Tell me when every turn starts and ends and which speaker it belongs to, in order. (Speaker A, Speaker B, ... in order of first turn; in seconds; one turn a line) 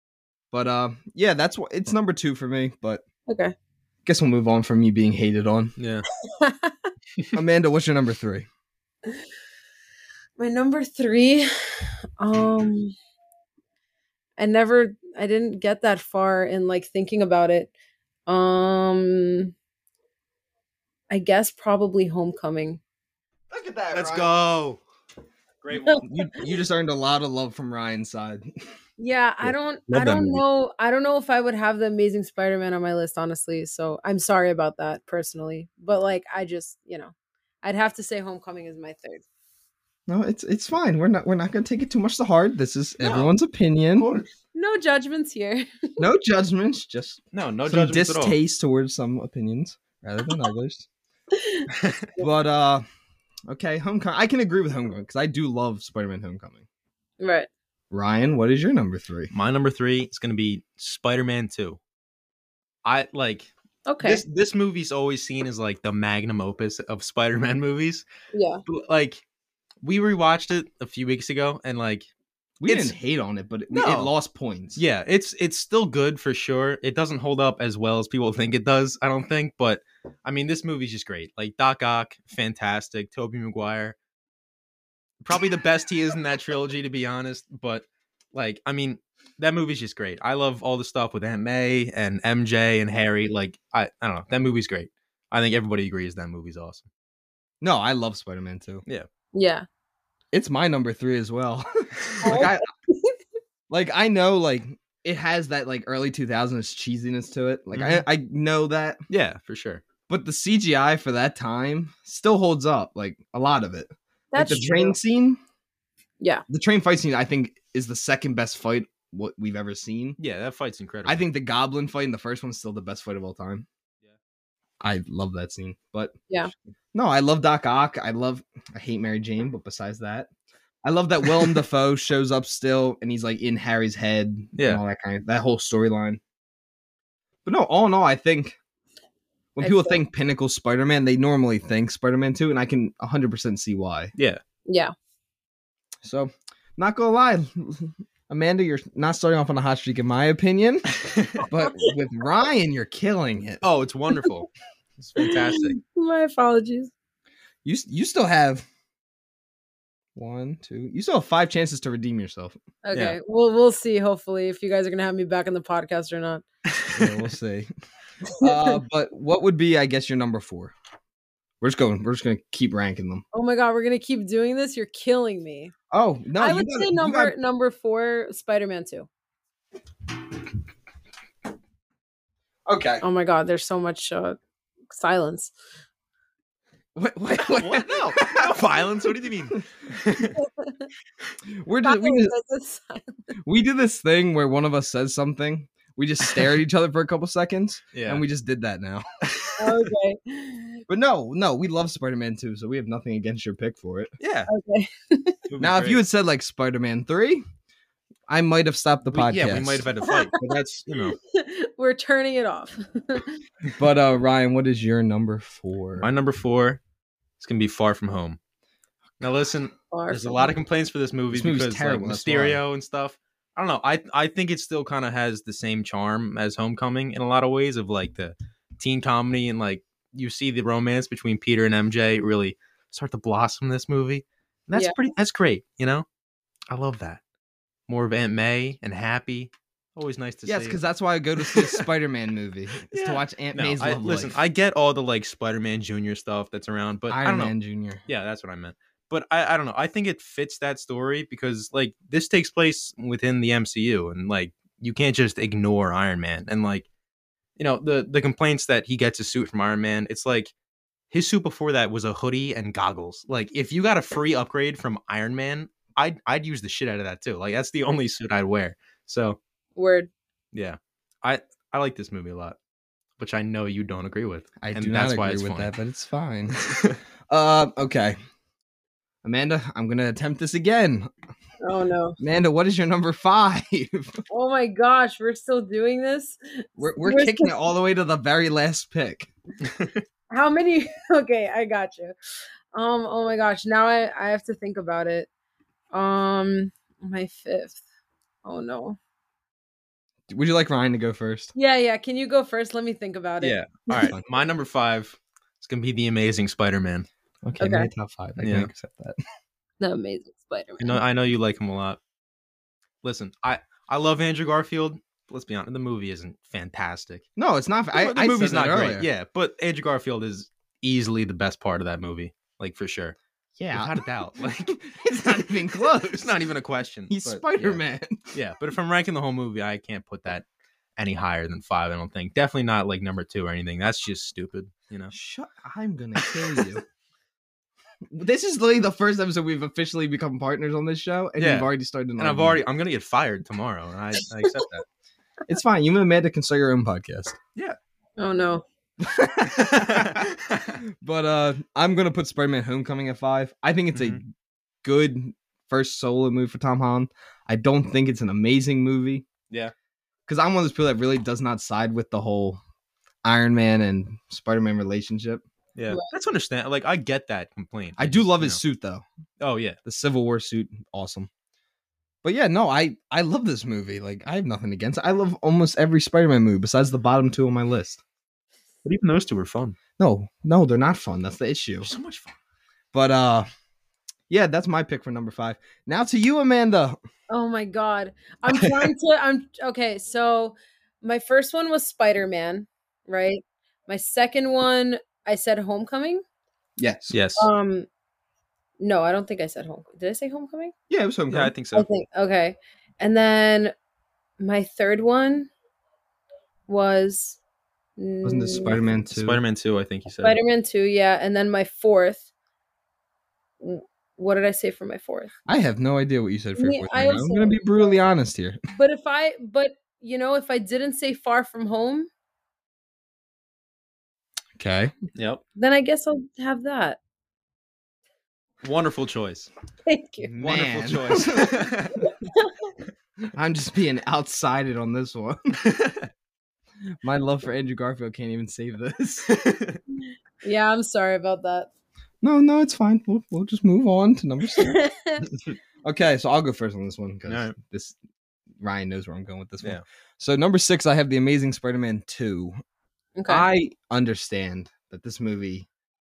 Speaker A: 0.5-3.0
Speaker B: 3.3-3.5
Speaker A: 4.1-5.8
Speaker C: 5.8-6.0
Speaker B: 6.2-6.9
Speaker A: 7.3-8.5
Speaker B: 10.4-12.9
Speaker B: 14.4-17.7
Speaker B: 18.3-19.5
Speaker B: 21.1-22.8
Speaker A: 23.5-24.3
Speaker C: 23.9-24.8
Speaker C: 25.6-26.1
Speaker B: 25.7-26.1
Speaker A: 26.0-28.5
Speaker B: 29.0-39.2
Speaker A: 29.4-30.4
Speaker C: 30.0-30.4
Speaker A: 40.1-44.1
Speaker C: 43.0-43.3
Speaker C: 44.0-44.3
Speaker B: 44.5-45.9
Speaker A: 46.0-50.9
Speaker C: 47.3-48.4
Speaker B: 51.4-52.3
Speaker C: 51.8-52.1
Speaker A: 52.2-52.9
Speaker A: 53.5-56.6
Speaker B: 57.2-57.5
Speaker A: 57.9-59.3
Speaker C: 59.3-61.8
Speaker C: 62.8-63.5
Speaker B: 63.9-64.2
Speaker C: 64.0-68.0
Speaker B: 68.3-68.6
Speaker C: 68.7-69.2
Speaker C: 69.8-72.1
Speaker A: 72.6-74.8
Speaker C: 72.7-73.0
Speaker C: 73.7-74.1
Speaker C: 74.8-84.0
Speaker C: 85.2-96.9
Speaker A: 97.6-98.8
Speaker B: 99.3-99.7
Speaker A: 100.3-102.7
Speaker C: 102.1-102.5
Speaker B: 102.2-103.2
Speaker A: 103.7-109.0
Speaker C: 107.7-108.0
Speaker C: 109.1-109.8
Speaker A: 110.1-115.4
Speaker B: 114.3-115.0
Speaker A: 116.5-120.2
Speaker C: 120.2-121.2
Speaker A: 121.0-123.7
Speaker A: 124.8-126.1
Speaker A: 126.9-130.3
Speaker A: 130.8-136.2
Speaker A: 137.4-138.6
Speaker A: 139.6-144.1
Speaker B: 139.6-140.0
Speaker C: 144.2-144.4
Speaker B: 144.7-144.9
Speaker A: 146.0-153.6
Speaker C: 151.0-151.4
Speaker B: 151.6-151.9
Speaker C: 153.6-155.8
Speaker B: 155.2-156.9
Speaker A: 157.6-158.7
Speaker A: 160.2-162.6
Speaker B: 162.8-166.4
Speaker C: 166.7-167.3
Speaker A: 166.9-167.7
Speaker B: 168.3-168.7
Speaker A: 168.4-170.7
Speaker A: 171.6-173.2
Speaker B: 173.3-175.7
Speaker A: 175.9-177.3
Speaker B: 176.4-179.1
Speaker A: 182.7-183.0
Speaker B: 183.0-184.4
Speaker B: 184.9-185.5
Speaker A: 187.0-188.5
Speaker C: 187.4-190.4
Speaker B: 190.4-190.9
Speaker A: 191.5-192.3
Speaker B: 191.8-193.2
Speaker A: 193.4-199.1
Speaker C: 197.9-198.2
Speaker C: 199.2-199.9
Speaker B: 199.6-200.8
Speaker A: 200.9-204.1
Speaker C: 204.2-204.5
Speaker B: 204.5-205.4
Speaker C: 205.5-206.0
Speaker A: 205.6-207.4
Speaker A: 208.3-209.9
Speaker C: 209.1-211.2
Speaker B: 210.0-210.4
Speaker B: 210.9-213.4
Speaker A: 213.8-216.1
Speaker C: 216.0-216.8
Speaker C: 217.4-218.4
Speaker C: 219.2-236.1
Speaker B: 219.9-220.5
Speaker A: 221.3-222.6
Speaker C: 236.7-237.2
Speaker C: 237.9-240.8
Speaker A: 240.5-244.4
Speaker C: 241.4-241.8
Speaker C: 242.9-247.5
Speaker A: 247.1-248.0
Speaker C: 248.1-256.9
Speaker C: 257.6-260.5
Speaker C: 261.1-269.4
Speaker B: 269.8-270.1
Speaker C: 270.5-272.6
Speaker C: 273.2-275.7
Speaker A: 274.6-276.6
Speaker C: 276.6-277.0
Speaker A: 277.3-278.2
Speaker A: 279.2-281.1
Speaker B: 281.6-282.2
Speaker A: 282.2-284.2
Speaker B: 284.3-287.5
Speaker A: 286.8-289.3
Speaker C: 289.6-290.0
Speaker B: 290.3-292.1
Speaker B: 292.7-295.3
Speaker B: 295.9-297.8
Speaker B: 298.4-299.0
Speaker A: 300.3-301.5
Speaker B: 301.6-304.1
Speaker C: 303.4-307.1
Speaker A: 304.0-304.3
Speaker A: 307.5-309.2
Speaker B: 307.6-307.9
Speaker C: 308.4-308.7
Speaker B: 309.8-311.0
Speaker C: 310.8-312.0
Speaker C: 313.0-317.2
Speaker A: 317.4-319.1
Speaker C: 317.9-323.2
Speaker A: 323.6-324.0
Speaker C: 323.7-327.8
Speaker A: 324.6-326.3
Speaker A: 327.1-328.3
Speaker C: 328.3-330.5
Speaker C: 331.0-335.1
Speaker A: 335.1-336.8
Speaker C: 336.2-336.6
Speaker A: 338.1-342.6
Speaker C: 341.4-344.9
Speaker A: 345.5-347.4
Speaker B: 348.2-348.6
Speaker A: 349.0-350.3
Speaker C: 349.6-350.8
Speaker A: 351.0-354.3
Speaker C: 353.9-354.2
Speaker A: 354.8-359.3
Speaker A: 360.3-362.6
Speaker A: 363.2-365.4
Speaker C: 365.8-368.6
Speaker A: 368.0-369.0
Speaker C: 369.4-369.8
Speaker A: 369.9-371.3
Speaker A: 372.2-378.0
Speaker C: 378.8-379.8
Speaker A: 380.0-381.9
Speaker C: 381.8-382.4
Speaker A: 382.9-383.5
Speaker A: 384.3-387.0
Speaker B: 387.3-396.2
Speaker C: 388.5-388.9
Speaker A: 396.8-397.1
Speaker C: 397.1-397.5
Speaker B: 397.4-397.9
Speaker B: 398.8-400.7
Speaker A: 400.9-401.5
Speaker C: 401.3-401.9
Speaker B: 401.8-403.7
Speaker B: 404.4-405.5
Speaker B: 406.7-407.4
Speaker B: 408.0-408.8
Speaker A: 408.2-409.4
Speaker C: 409.1-410.4
Speaker B: 410.2-412.3
Speaker B: 413.6-415.3
Speaker A: 415.5-418.6
Speaker B: 416.6-417.9
Speaker B: 418.8-422.1
Speaker A: 424.6-424.9
Speaker C: 425.1-425.4
Speaker B: 425.6-427.0
Speaker C: 428.6-429.5
Speaker B: 429.9-430.3
Speaker A: 430.3-431.7
Speaker C: 430.4-432.1
Speaker B: 432.0-432.7
Speaker A: 433.3-435.6
Speaker C: 435.6-436.1
Speaker A: 437.0-439.3
Speaker C: 439.3-439.8
Speaker B: 440.4-441.7
Speaker A: 442.2-444.8
Speaker B: 444.6-445.2
Speaker A: 445.8-448.0
Speaker C: 447.3-447.6
Speaker A: 448.6-452.6
Speaker B: 453.2-453.5
Speaker A: 453.3-455.7